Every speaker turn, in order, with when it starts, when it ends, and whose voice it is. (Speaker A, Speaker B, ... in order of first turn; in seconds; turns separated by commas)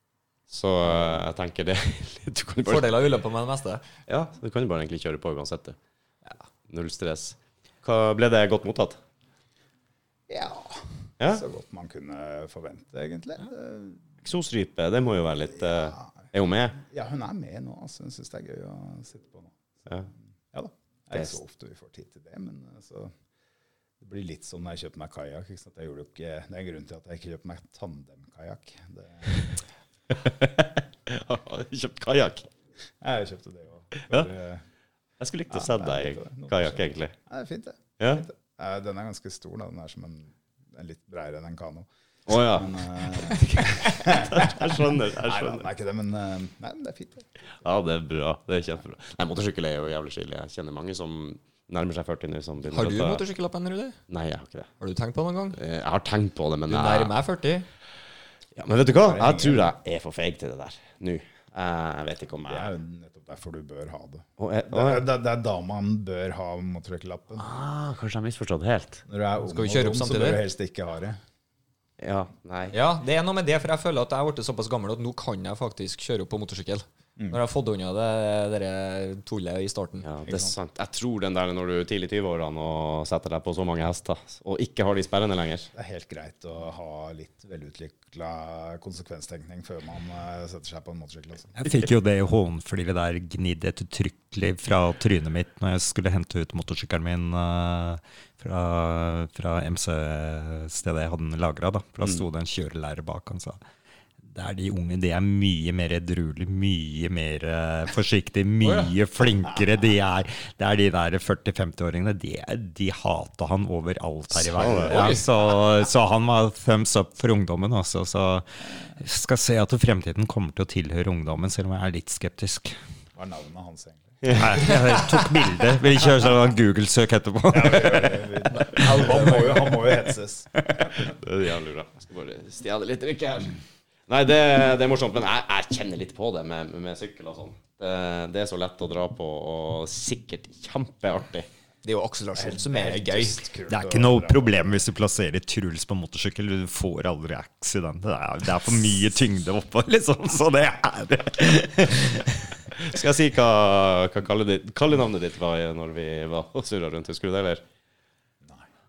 Speaker A: 0.5-3.1, Speaker B: 0.9-1.2, Speaker C: 2.6-3.9, Speaker A: 4.1-5.8, Speaker A: 6.7-9.0, Speaker B: 10.3-14.0, Speaker A: 14.2-16.8, Speaker B: 15.6-16.1, Speaker B: 16.8-19.6, Speaker B: 20.5-23.1, Speaker B: 24.0-29.5, Speaker A: 30.1-32.5, Speaker B: 33.0-34.6, Speaker A: 35.2-37.1, Speaker B: 35.5-47.3, Speaker A: 38.0-38.2, Speaker A: 42.3-43.1, Speaker C: 43.4-44.0, Speaker A: 44.0-45.7, Speaker A: 47.6-53.2, Speaker C: 52.7-54.0, Speaker A: 54.1-54.7, Speaker C: 54.8-55.6, Speaker A: 55.5-57.1, Speaker C: 56.7-57.7, Speaker A: 58.6-62.7, Speaker B: 58.9-59.7, Speaker B: 62.5-67.5, Speaker A: 64.4-65.0, Speaker A: 67.4-69.0, Speaker B: 69.1-71.2, Speaker C: 69.4-70.4, Speaker A: 72.0-72.8, Speaker C: 72.7-80.1, Speaker A: 80.0-85.7, Speaker B: 80.2-80.5, Speaker B: 85.7-91.6, Speaker D: 91.6-103.6, Speaker D: 104.2-122.8, Speaker A: 114.3-115.2, Speaker C: 114.9-115.2, Speaker B: 123.2-125.0, Speaker A: 124.2-124.7, Speaker D: 124.3-129.1, Speaker C: 124.7-125.1, Speaker B: 127.5-131.1, Speaker C: 128.5-129.9, Speaker A: 131.1-141.5, Speaker C: 141.8-143.4, Speaker B: 142.4-144.8, Speaker D: 143.7-152.6, Speaker A: 152.7-157.6